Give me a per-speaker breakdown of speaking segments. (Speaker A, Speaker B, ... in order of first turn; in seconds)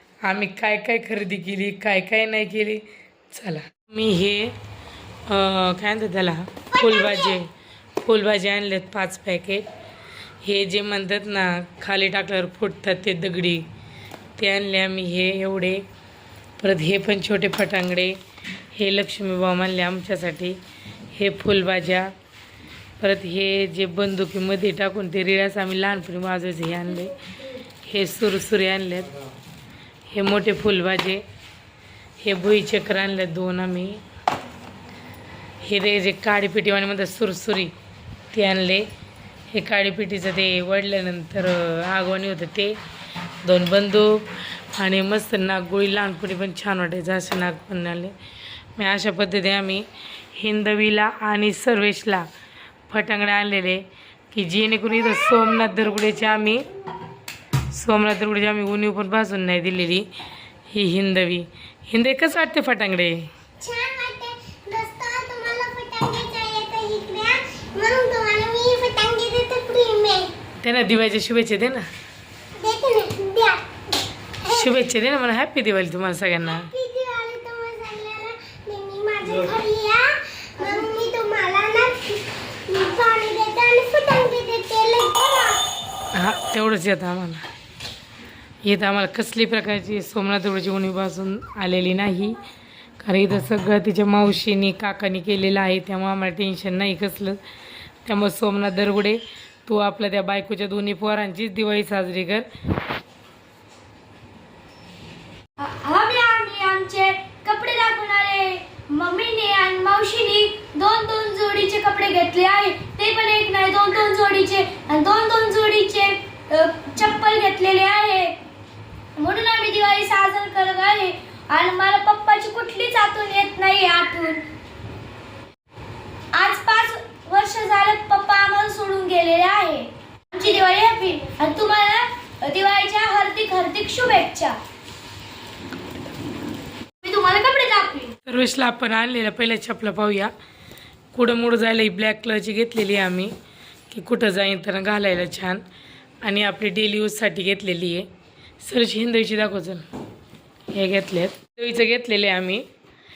Speaker A: 0.2-4.6, 5.3-9.7, 10.4-13.7, 14.4-15.8, 16.6-18.2, 18.7-20.6, 21.1-22.1, 23.0-27.1, 27.8-29.2, 30.1-31.2, 32.2-34.0, 35.6-37.7, 38.3-38.9, 39.5-42.8, 43.4-48.1, 48.8-52.3, 52.9-56.7, 57.7-60.1, 60.7-63.3, 70.6-71.8, 74.5-76.7, 86.1-87.4, 88.6-92.4, 93.0-97.4, 98.0-102.5, 138.3-140.3, 141.1-143.3, 143.9-145.6, 146.2-148.1, 148.6-149.8, 150.7-152.7
Speaker B: 63.6-70.3, 72.6-73.6, 76.7-85.6
Speaker C: 105.6-118.3, 119.2-124.5, 126.3-134.6, 137.0-138.2